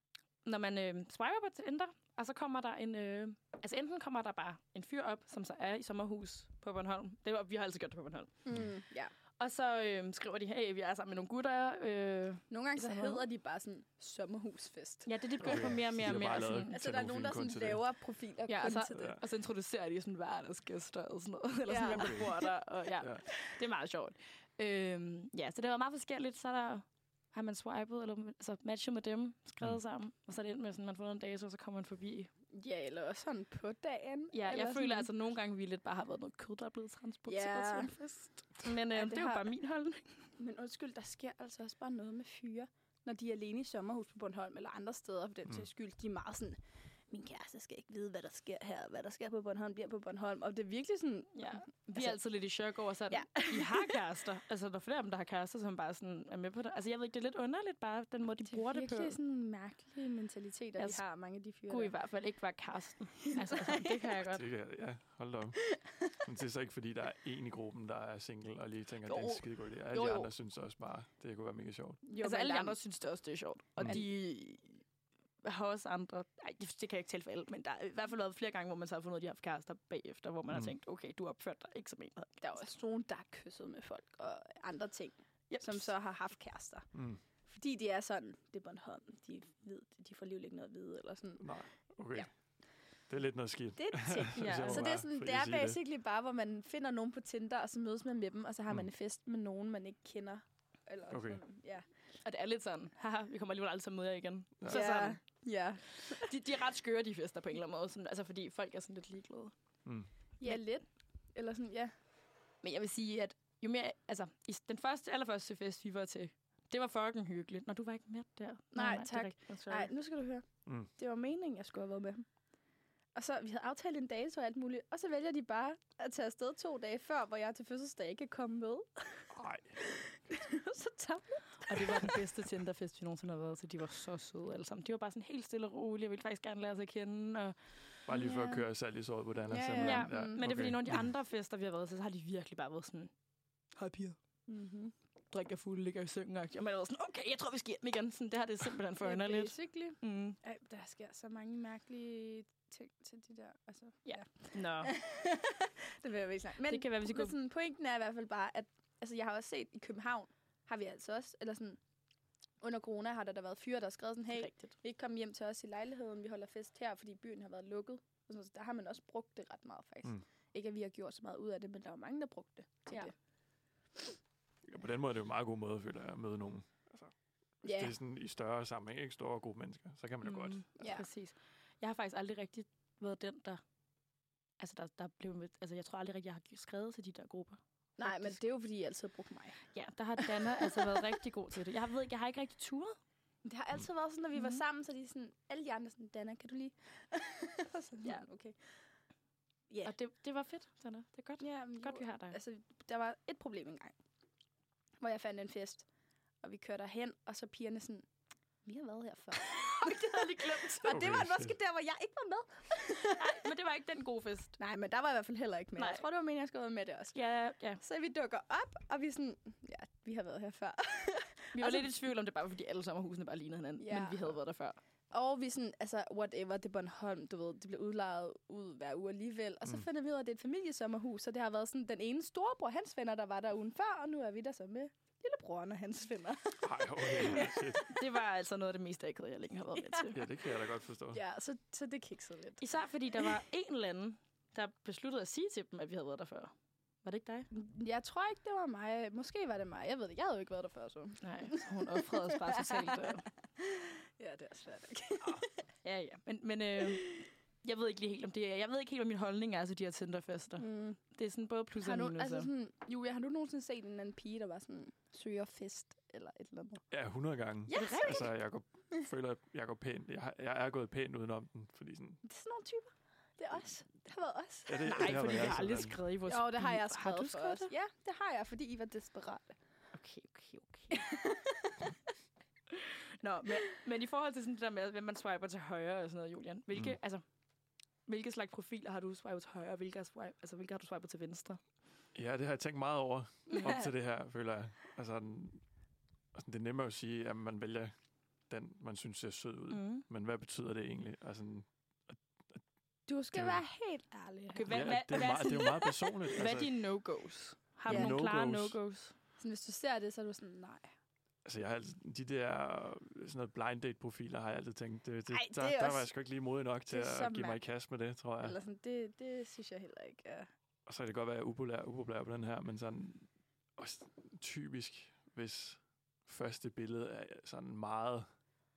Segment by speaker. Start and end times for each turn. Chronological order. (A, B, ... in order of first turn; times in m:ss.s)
0:00.4-0:08.3 A
0:08.4-0:09.1 B
0:09.4-0:13.2 A
0:12.5-0:19.2 B
0:15.1-0:16.8 A
0:15.4-0:17.8 C
0:18.5-0:32.3 A
0:18.9-0:19.2 C
0:21.7-0:22.5 B
0:32.5-0:35.1 B
0:34.3-0:40.1 A
0:37.3-0:37.9 B
0:38.9-0:39.5 B
0:40.4-0:46.6 B
0:47.1-0:52.2 B
0:51.4-0:59.2 A
0:53.1-0:54.0 B
0:58.5-1:01.9 B
1:01.7-1:04.4 A
1:03.2-1:04.1 B
1:04.3-1:05.7 C
1:05.7-1:06.0 B
1:06.2-1:12.0 C
1:09.0-1:10.3 A
1:12.1-1:12.8 B
1:12.2-1:14.8 A
1:13.8-1:14.1 B
1:15.4-1:22.6 A
1:22.4-1:26.9 B
1:25.5-1:25.9 A
1:26.9-1:27.2 C
1:27.5-1:31.5 B
1:31.4-1:32.3 C
1:33.1-1:35.8 C
1:33.8-1:41.9 B
1:34.3-1:34.9 A
1:41.1-1:41.4 C
1:42.2-1:45.2 A
1:44.7-1:46.3 B
1:45.9-1:49.5 A
1:50.4-1:51.9 B
1:52.6-1:59.9 A
1:58.7-2:02.3 B
2:00.7-2:00.9 C
2:03.2-2:12.1 B
2:09.4-2:09.8 C
2:11.6-2:17.6 A
2:18.1-2:21.1 C
2:18.1-2:18.6 B
2:19.5-2:20.5 B
2:19.8-2:23.1 A
2:23.8-2:24.2 A
2:24.5-2:24.9 B
2:25.3-2:30.4 A
2:29.0-2:41.8 B
2:34.0-2:35.0 A
2:36.7-2:37.3 A
2:42.6-2:53.1 B
2:44.3-2:44.7 A
2:54.7-3:00.6 C
2:57.6-2:58.0 B
3:00.2-3:03.6 A
3:00.8-3:01.0 B
3:04.6-3:08.4 A
3:08.0-3:09.6 B
3:09.7-3:13.0 A
3:10.2-3:11.1 B
3:13.4-3:18.6 B
3:14.4-3:14.6 A
3:19.8-3:22.4 A
3:21.4-3:24.0 B
3:25.0-3:25.8 B
3:26.4-3:28.0 B
3:28.6-3:33.4 B
3:29.4-3:31.0 A
3:30.9-3:31.6 C
3:33.0-3:34.5 A
3:34.6-3:37.2 B
3:35.8-3:36.0 A
3:37.1-3:37.8 A
3:37.8-3:41.9 B
3:41.5-3:44.8 A
3:43.8-3:44.3 B
3:45.1-3:57.8 B
3:56.6-3:58.0 C
3:57.4-4:00.2 A
3:59.8-4:00.4 B
4:00.1-4:01.2 C
4:01.1-4:02.6 B
4:02.6-4:06.5 A
4:07.0-4:07.5 A
4:07.5-4:15.5 B
4:11.2-4:13.2 A
4:15.2-4:22.5 A
4:16.9-4:17.2 B
4:20.6-4:21.0 B
4:21.8-4:26.8 B
4:26.9-4:32.2 C
4:27.7-4:28.3 B
4:27.7-4:28.3 A
4:32.2-4:35.6 B
4:34.7-4:36.0 C
4:34.8-4:37.7 A
4:36.3-4:39.6 B
4:39.9-4:41.1 A
4:40.9-4:41.9 B
4:42.7-4:47.2 A
4:48.1-4:51.6 A
4:52.2-4:55.6 C
4:53.5-4:53.8 B
4:56.3-4:57.9 C
4:58.5-5:02.6 C
4:59.7-5:00.0 A
5:03.1-5:05.9 B
5:03.3-5:03.6 C
5:04.5-5:09.2 A
5:04.7-5:06.8 C
5:07.9-5:08.8 C
5:07.9-5:08.2 B
5:09.4-5:10.9 B
5:11.4-5:18.6 C
5:15.3-5:16.1 B
5:16.9-5:17.6 B
5:18.4-5:20.5 B
5:20.9-5:28.3 C